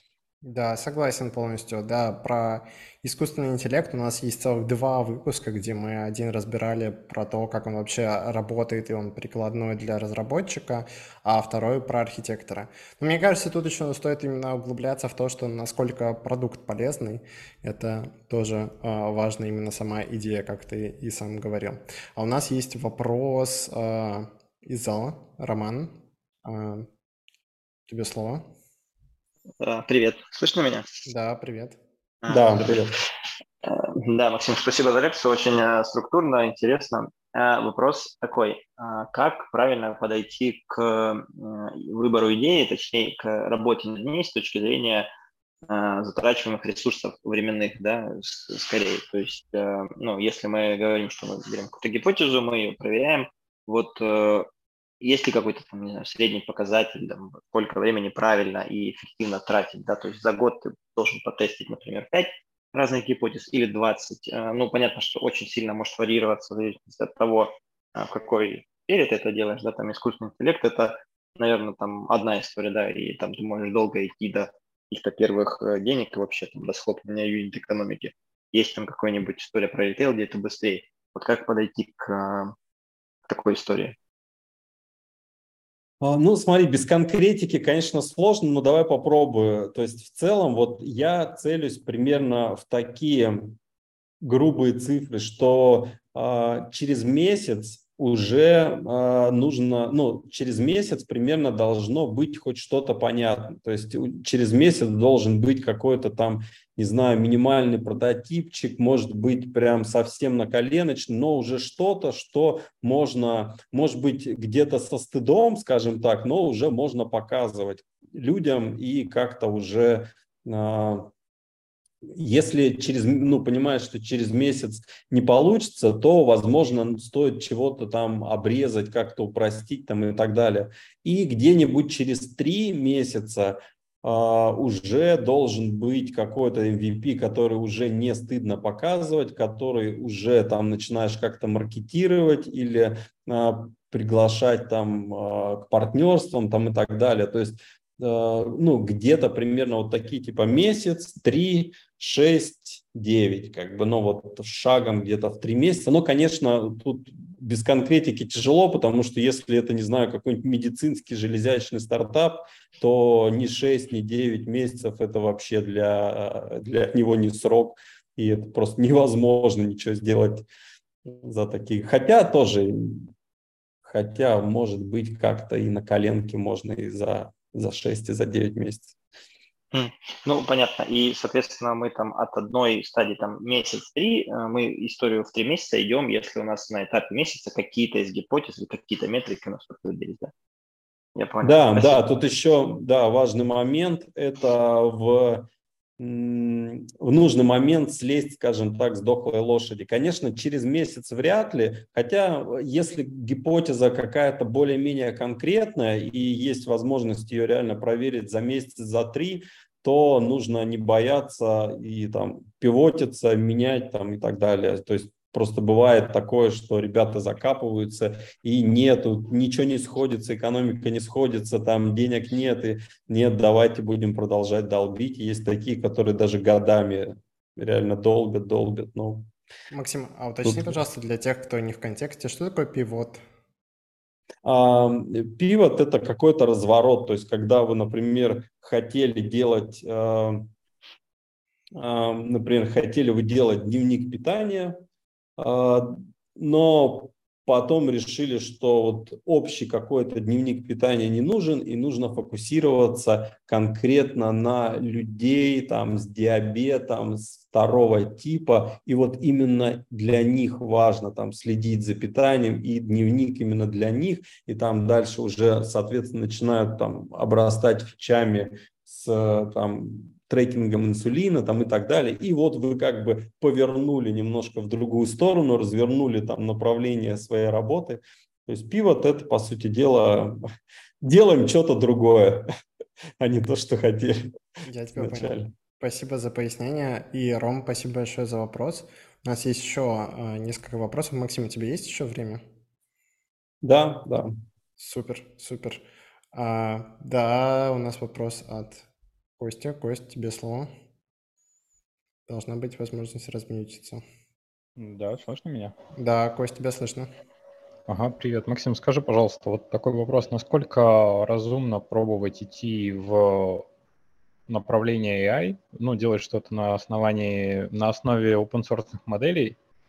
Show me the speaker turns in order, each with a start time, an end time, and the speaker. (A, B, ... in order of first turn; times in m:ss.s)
0:00.4-0:25.9 A
0:26.4-0:26.9 A
0:27.9-0:28.4 A
0:29.6-0:30.9 B
0:31.0-0:31.8 A
0:32.2-0:32.9 B
0:32.3-0:33.0 C
0:33.6-0:45.1 B
0:45.7-0:54.5 B
0:55.0-1:22.5 B
1:23.3-1:24.0 B
1:26.0-1:33.5 C
1:34.2-2:01.1 C
2:02.1-2:50.5 C
2:51.0-2:53.1 C
2:53.8-2:59.0 C
2:59.7-3:10.3 B
3:11.2-3:12.0 B
3:11.4-3:15.4 C
3:16.0-3:49.3 C
3:49.7-3:53.2 A
3:50.4-3:50.8 C
3:54.4-4:00.4 C
4:01.7-4:04.8 C
4:05.4-4:40.4 C
4:41.0-4:42.4 C
4:43.2-4:44.3 C
4:44.6-4:52.4 A
4:44.9-4:45.5 C
4:53.6-4:54.3 C
4:54.8-4:55.8 A
4:56.3-4:58.8 A
4:59.4-5:00.7 A
5:02.3-5:04.0 A
5:04.8-5:05.7 D
5:06.0-5:07.1 A
5:07.9-5:13.7 D
5:14.5-5:19.6 D